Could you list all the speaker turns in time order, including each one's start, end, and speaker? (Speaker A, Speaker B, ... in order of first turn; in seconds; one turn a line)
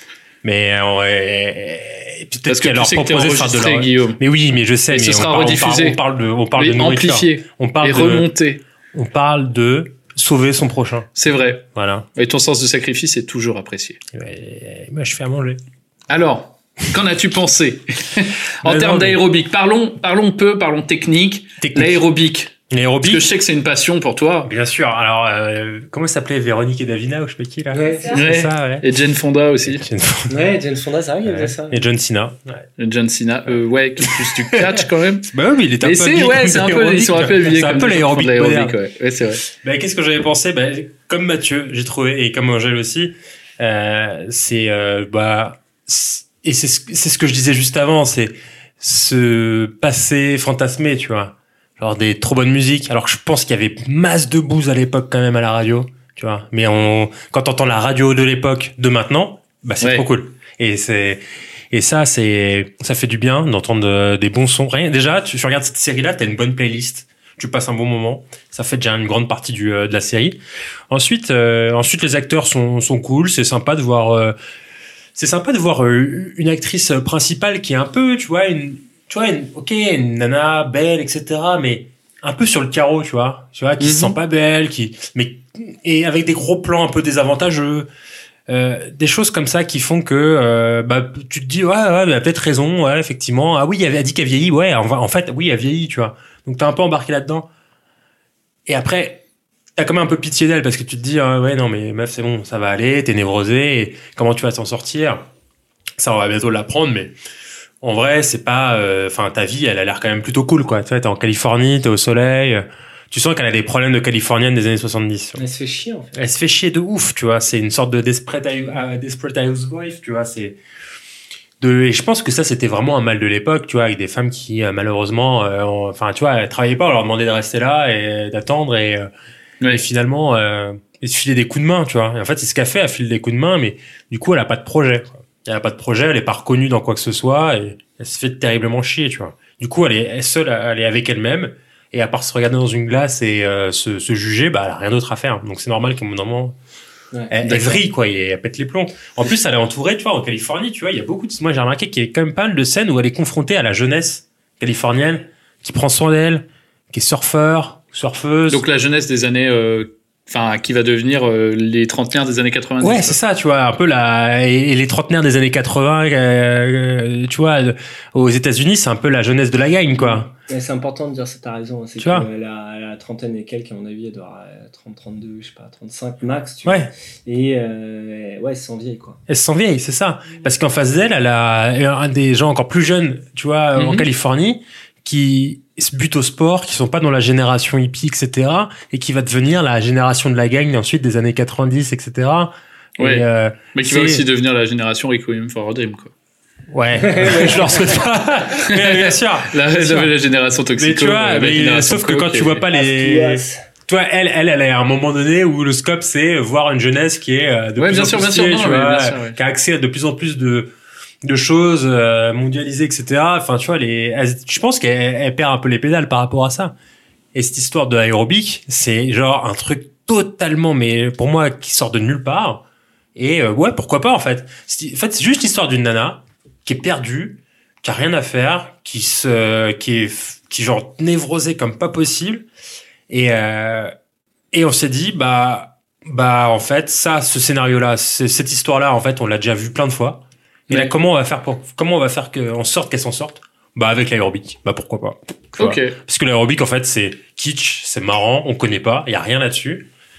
Speaker A: 0.4-8.3
Speaker B: 2.5-4.2
Speaker B: 4.9-6.0
Speaker B: 6.6-8.6
Speaker A: 8.9-11.1
Speaker B: 11.2-11.6
Speaker A: 11.6-12.1
Speaker B: 12.2-14.0
Speaker A: 14.1-15.6
Speaker B: 16.1-24.5
Speaker A: 18.6-19.2
Speaker A: 21.6-22.0
Speaker A: 22.7-23.3
Speaker A: 24.4-28.9
Speaker C: 27.7-28.1
Speaker B: 28.1-29.8
Speaker A: 29.6-30.5
Speaker C: 30.3-31.8
Speaker A: 31.2-32.7
Speaker B: 32.8-35.3
Speaker A: 34.2-34.6
Speaker A: 35.3-38.7
Speaker B: 35.8-39.4
Speaker A: 39.5-70.4
Speaker B: 59.8-60.1
Speaker A: 70.9-74.3
Speaker A: 75.2-87.9
Speaker B: 83.8-84.1
Speaker A: 88.5-97.5
Speaker A: 98.7-99.2
Speaker A: 99.8-105.2
Speaker A: 106.0-107.1
Speaker A: 107.8-115.4
Speaker C: 115.4-116.2
Speaker A: 116.2-120.6
Speaker A: 121.6-129.1
Speaker A: 129.7-146.6
Speaker A: 147.3-158.6
Speaker B: 147.5-147.8
Speaker B: 158.5-163.2
Speaker A: 162.8-170.3
Speaker C: 170.0-179.2
Speaker A: 172.0-172.3
Speaker A: 176.7-176.9
Speaker A: 179.3-194.2
Speaker B: 183.8-184.1
Speaker B: 193.0-196.1
Speaker A: 196.7-200.1
Speaker C: 197.1-197.8
Speaker B: 198.6-202.6
Speaker A: 200.8-210.7
Speaker C: 202.7-203.6
Speaker B: 207.8-209.4
Speaker A: 211.2-216.7
Speaker A: 217.3-222.6
Speaker A: 223.2-232.4
Speaker A: 233.1-233.9
Speaker A: 234.5-249.9
Speaker B: 245.6-246.0